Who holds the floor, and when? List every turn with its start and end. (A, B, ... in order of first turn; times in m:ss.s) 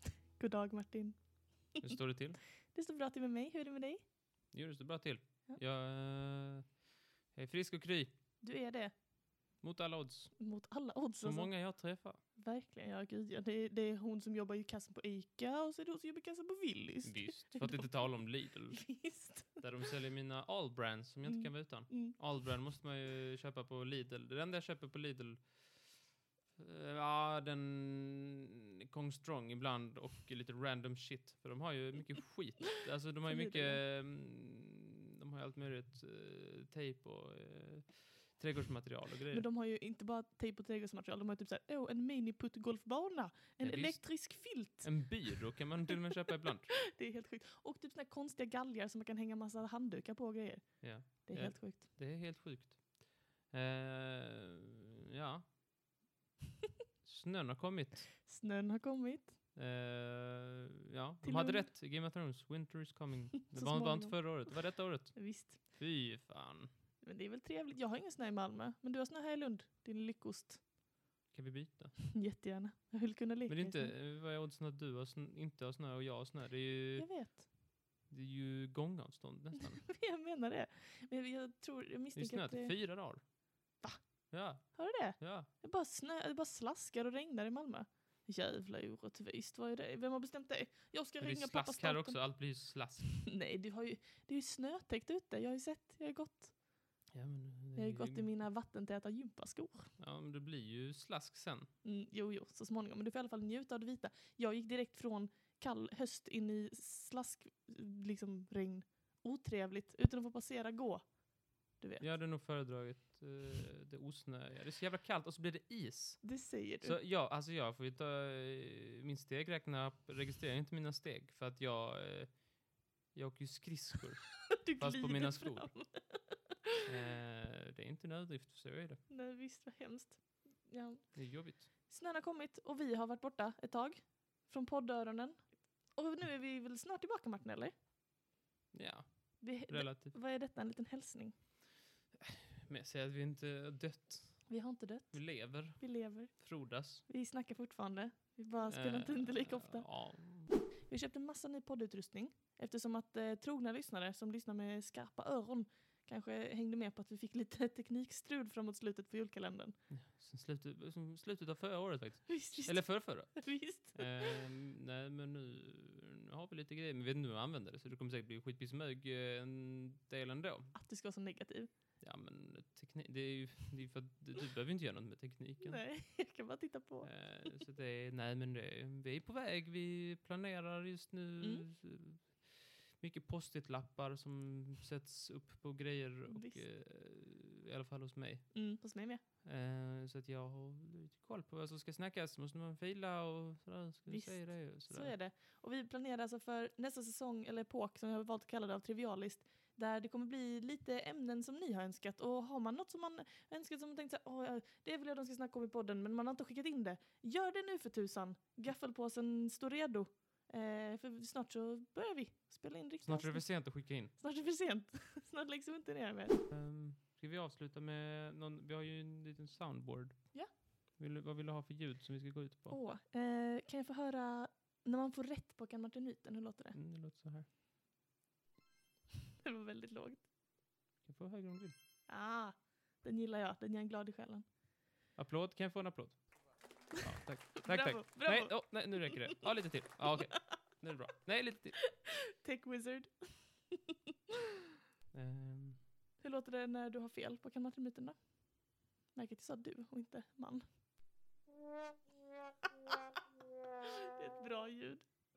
0:00.4-0:01.2 A
0:01.8-0:02.4 B
0:02.7-0:04.0 A
0:04.5-0:06.7 B
0:07.3-0:08.1 B
0:08.4-0:08.9 A
0:09.6-0:10.4 B
0:10.4-0:11.8 A
0:11.2-0:12.2 B
0:12.3-0:18.2 A
0:17.0-0:19.0 B
0:18.7-0:19.6 A
0:19.6-0:25.9 B
0:21.2-0:22.1 A
0:26.6-0:39.4 B
0:33.2-0:33.8 A
0:39.3-0:46.0 A
0:43.6-0:46.8 B
0:46.9-0:51.8 A
0:50.8-0:55.6 B
0:57.0-0:58.1 B
0:58.2-0:59.4 A
0:59.5-1:06.7 B
1:01.2-1:01.7 A
1:03.3-1:05.6 A
1:07.0-1:10.6 A
1:11.3-1:12.0 B
1:12.1-1:13.9 A
1:13.5-1:17.4 B
1:17.0-1:17.4 A
1:18.0-1:20.0 B
1:19.8-1:22.8 A
1:22.2-1:23.2 B
1:24.3-1:25.5 B
1:24.5-1:36.5 A
1:31.2-1:33.2 B
1:37.1-1:38.3 B
1:37.8-1:39.9 A
1:40.0-1:41.7 B
1:41.8-1:51.2 A
1:51.7-1:52.0 A
1:52.0-2:02.6 B
1:56.2-1:57.0 A
2:03.1-2:05.8 B
2:04.6-2:06.4 A
2:06.8-2:09.0 B
2:09.1-2:17.7 A
2:11.1-2:11.7 B
2:18.7-2:20.1 B
2:19.4-2:21.3 A
2:22.1-2:27.0 B
2:24.5-2:39.8 A
2:28.7-2:30.5 B
2:39.9-2:50.7 B
2:42.3-2:44.4 A
2:50.7-2:51.7 A
2:52.0-2:55.9 B
2:55.6-2:57.6 A
2:57.0-3:15.1 B
3:01.4-3:01.7 A
3:06.3-3:06.6 A
3:08.5-3:09.2 A
3:14.1-3:36.4 A
3:33.0-3:34.1 B
3:36.5-3:42.8 B
3:42.7-3:46.8 A
3:46.7-3:47.4 B
3:49.4-3:50.2 A
3:51.0-3:51.7 B
3:52.1-3:54.4 A
3:55.2-3:56.2 B
3:57.0-4:01.9 B
3:57.6-3:59.4 A
4:02.0-4:03.9 A
4:05.1-4:05.8 B
4:06.2-4:08.3 A
4:09.1-4:10.6 A
4:14.2-4:15.0 A